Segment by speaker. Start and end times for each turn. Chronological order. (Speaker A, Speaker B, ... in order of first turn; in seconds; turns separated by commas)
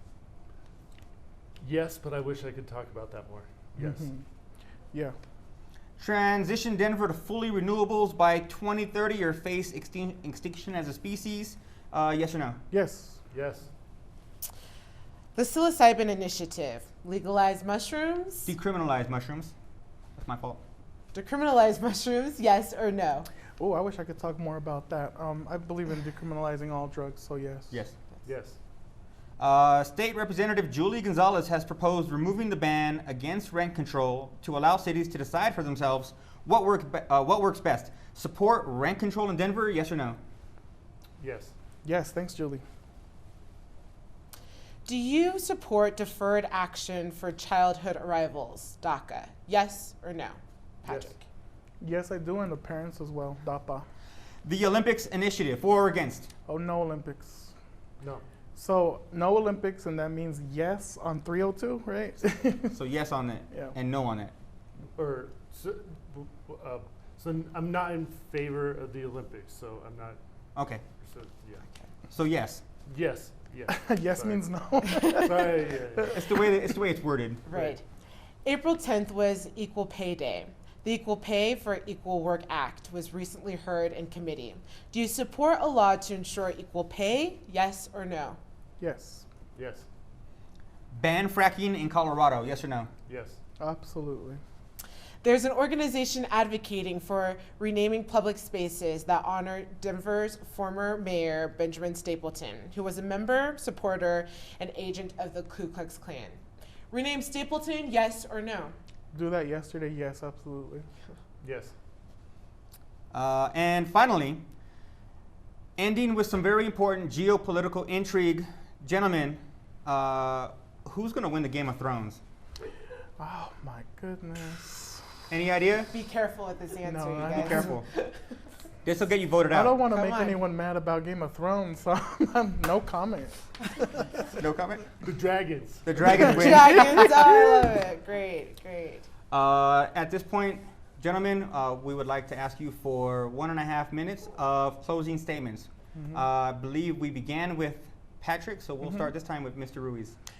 Speaker A: 1.6-4.1, Speaker B: 3.8-4.2, Speaker C: 6.0-12.6, Speaker B: 12.7-13.2, Speaker A: 13.3-13.7, Speaker D: 15.3-18.5, Speaker C: 18.4-19.5, Speaker C: 20.2-20.6, Speaker D: 21.1-23.3, Speaker B: 23.6-27.8, Speaker A: 28.3-28.6, Speaker C: 29.4-40.2, Speaker A: 41.2-41.5, Speaker B: 41.8-42.6, Speaker D: 44.9-51.2, Speaker A: 50.9-51.2, Speaker B: 51.8-53.9, Speaker C: 54.4-56.3, Speaker B: 56.5-57.5, Speaker B: 58.5-62.8, Speaker C: 62.7-64.3, Speaker A: 65.0-70.2, Speaker C: 70.5-70.8, Speaker A: 71.0-71.7, Speaker C: 72.1-72.6, Speaker A: 72.9-76.2, Speaker B: 73.7-76.0, Speaker C: 76.1-77.4, Speaker D: 77.5-77.8, Speaker A: 77.5-77.8, Speaker D: 78.4-88.4, Speaker B: 88.8-89.3, Speaker A: 89.6-89.9, Speaker C: 90.9-92.9, Speaker A: 93.1-93.4, Speaker B: 93.6-94.4, Speaker D: 95.2-106.4, Speaker D: 106.9-108.8, Speaker B: 109.1-110.9, Speaker A: 111.4-111.7, Speaker C: 113.1-114.4, Speaker C: 115.8-122.2, Speaker B: 123.2-125.0, Speaker C: 125.3-125.9, Speaker D: 125.9-128.2, Speaker B: 126.9-127.8, Speaker C: 127.3-127.9, Speaker C: 128.8-129.8, Speaker B: 129.5-134.0, Speaker D: 129.9-130.4, Speaker C: 134.3-134.9, Speaker A: 135.0-136.4, Speaker C: 135.8-137.1, Speaker D: 136.3-139.1, Speaker C: 139.3-150.2, Speaker B: 145.9-146.2